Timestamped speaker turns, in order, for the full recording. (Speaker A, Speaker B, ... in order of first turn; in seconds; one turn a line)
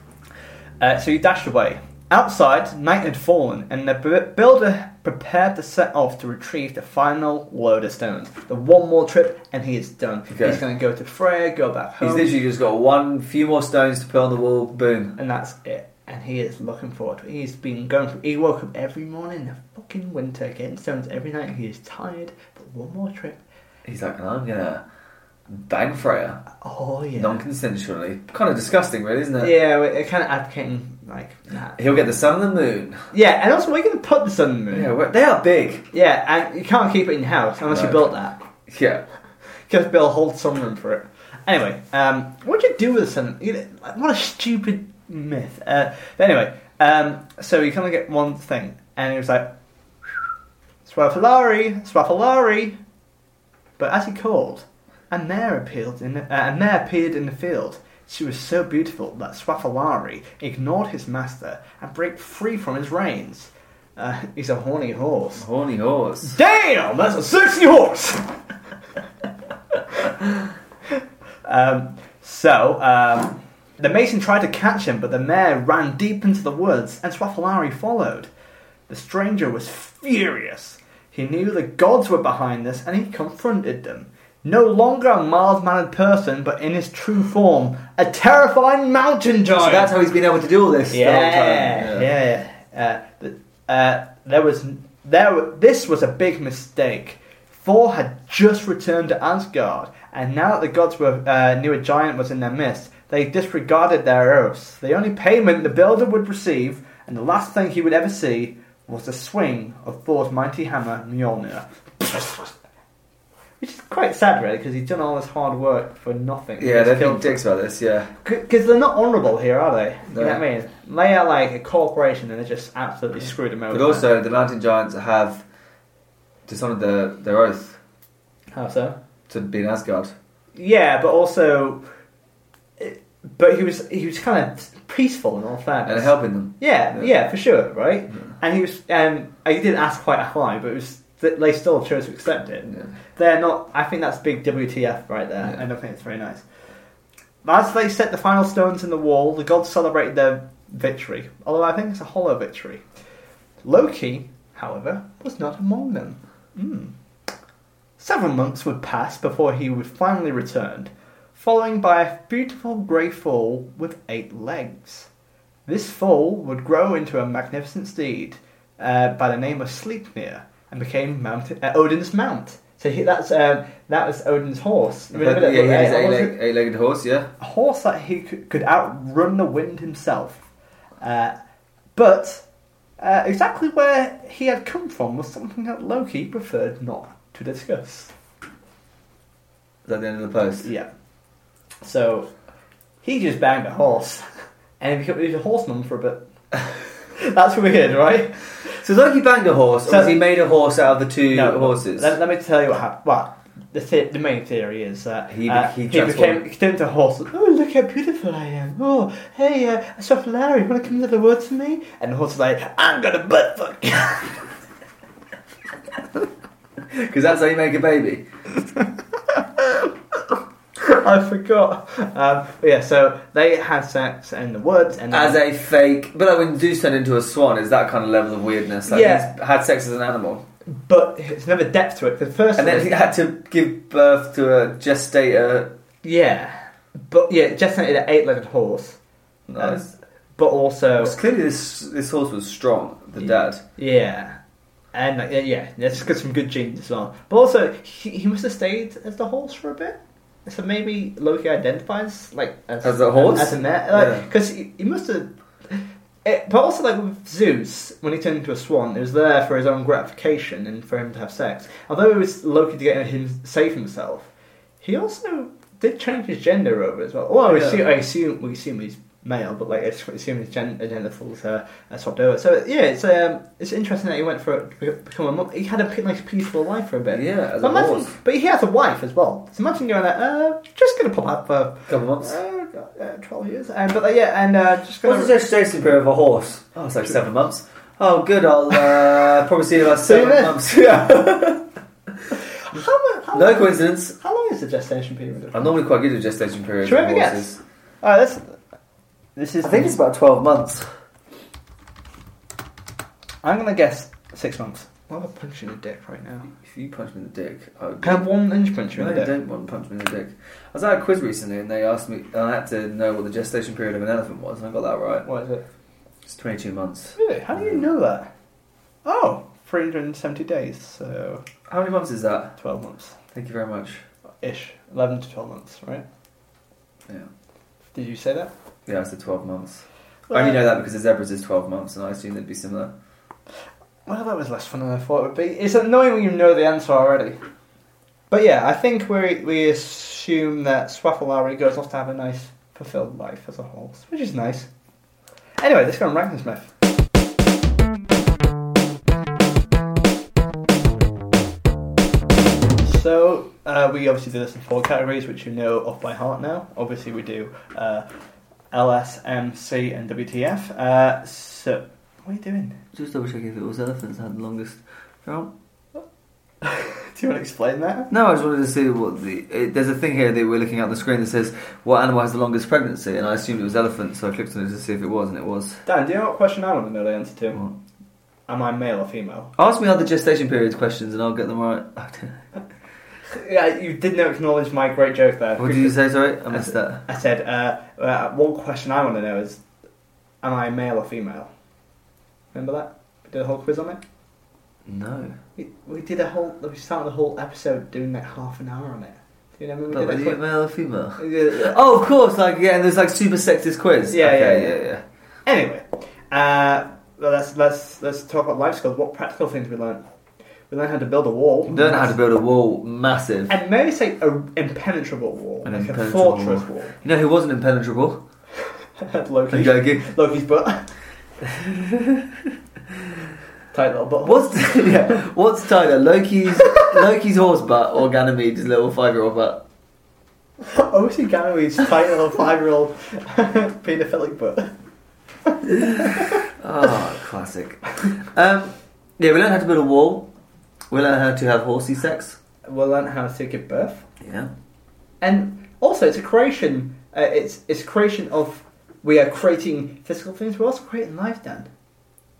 Speaker A: 0.8-12.3
Speaker B: 10.3-10.6
Speaker B: 12.0-15.2
Speaker A: 15.2-23.4
Speaker B: 23.8-24.8
Speaker B: 25.5-26.4
Speaker A: 26.6-27.4
Speaker B: 27.1-29.5
Speaker A: 29.4-31.8
Speaker B: 31.8-33.0
Speaker A: 33.1-34.9
Speaker B: 34.7-35.9
Speaker A: 35.9-38.4
Speaker B: 37.7-38.1
Speaker B: 38.7-39.0
Speaker A: 39.7-49.5
Speaker A: 50.8-52.8
Speaker A: 53.8-65.4
Speaker B: 65.4-66.3
Speaker A: 66.2-68.3
Speaker A: 69.9-70.5
Speaker A: 71.4-78.3
Speaker A: 78.9-89.9
Speaker B: 89.6-92.1
Speaker A: 90.9-112.5
Speaker A: 113.6-117.4
Speaker B: 116.6-118.1
Speaker A: 118.2-124.1
Speaker B: 120.1-120.4
Speaker B: 123.7-125.4
Speaker B: 126.5-127.8
Speaker A: 128.5-129.0
Speaker B: 129.3-130.1
Speaker A: 130.5-131.8
Speaker A: 132.8-146.4
Speaker B: 135.8-137.1
Speaker A: 147.4-152.8
Speaker A: 153.6-156.9
Speaker A: 158.0-165.1
Speaker A: 165.7-176.3
Speaker B: 175.1-177.3
Speaker A: 177.4-180.4
Speaker A: 181.0-181.3
Speaker A: 181.9-182.4
Speaker A: 183.0-188.1
Speaker B: 189.8-190.7
Speaker A: 190.6-190.9
Speaker A: 191.8-192.3
Speaker A: 193.0-194.2
Speaker A: 194.8-198.8
Speaker B: 198.7-202.1
Speaker A: 199.9-200.2
Speaker A: 201.3-214.5
Speaker B: 205.3-206.4
Speaker B: 216.9-218.2
Speaker A: 220.8-225.4
Speaker B: 225.1-230.4
Speaker A: 228.8-229.3
Speaker A: 230.7-233.1
Speaker B: 232.6-235.7
Speaker A: 236.0-239.0
Speaker B: 239.5-239.9
Speaker A: 239.6-241.1
Speaker B: 241.0-243.6
Speaker A: 243.2-244.4
Speaker A: 244.9-264.3
Speaker B: 252.8-254.3
Speaker A: 264.8-285.3
Speaker B: 267.4-267.9
Speaker B: 277.1-278.1
Speaker B: 281.9-282.4
Speaker B: 285.0-291.6
Speaker A: 290.0-291.4
Speaker A: 292.7-295.8
Speaker B: 293.3-294.1
Speaker B: 295.5-297.6
Speaker A: 296.8-298.6
Speaker A: 299.4-300.0
Speaker B: 299.6-300.8
Speaker A: 303.4-306.5
Speaker B: 306.5-308.3
Speaker A: 308.0-309.3
Speaker B: 308.9-315.2
Speaker A: 315.2-315.6
Speaker B: 316.2-317.8
Speaker A: 317.1-318.3
Speaker A: 319.0-321.4
Speaker B: 321.7-322.5
Speaker A: 322.6-323.1
Speaker B: 323.3-324.0
Speaker A: 324.4-326.0
Speaker A: 327.9-328.5
Speaker B: 328.9-332.9
Speaker A: 330.3-330.6
Speaker A: 334.1-337.4
Speaker A: 338.3-344.7
Speaker A: 345.6-346.7
Speaker A: 352.8-358.0
Speaker A: 358.7-362.8
Speaker B: 362.9-365.5
Speaker A: 366.6-368.1
Speaker B: 368.1-375.8
Speaker A: 375.9-377.6
Speaker A: 378.5-379.5
Speaker B: 379.6-382.4
Speaker A: 383.3-386.0
Speaker B: 385.6-387.0
Speaker A: 386.5-389.6
Speaker A: 390.4-391.5
Speaker A: 392.5-394.0
Speaker B: 394.9-395.4
Speaker A: 395.6-400.4
Speaker B: 399.9-405.0
Speaker A: 401.2-401.8
Speaker A: 404.1-404.8
Speaker A: 405.4-410.0
Speaker A: 410.7-412.1
Speaker B: 411.7-413.6
Speaker A: 413.5-417.0
Speaker B: 415.6-418.2
Speaker A: 419.0-420.9
Speaker B: 419.5-420.1
Speaker B: 421.4-423.2
Speaker A: 423.7-425.2
Speaker B: 424.2-429.6
Speaker A: 426.7-426.9
Speaker A: 430.6-434.7
Speaker A: 435.4-436.4
Speaker B: 435.7-440.3
Speaker B: 440.9-442.4
Speaker A: 442.6-444.0
Speaker B: 444.2-444.5
Speaker A: 445.2-451.7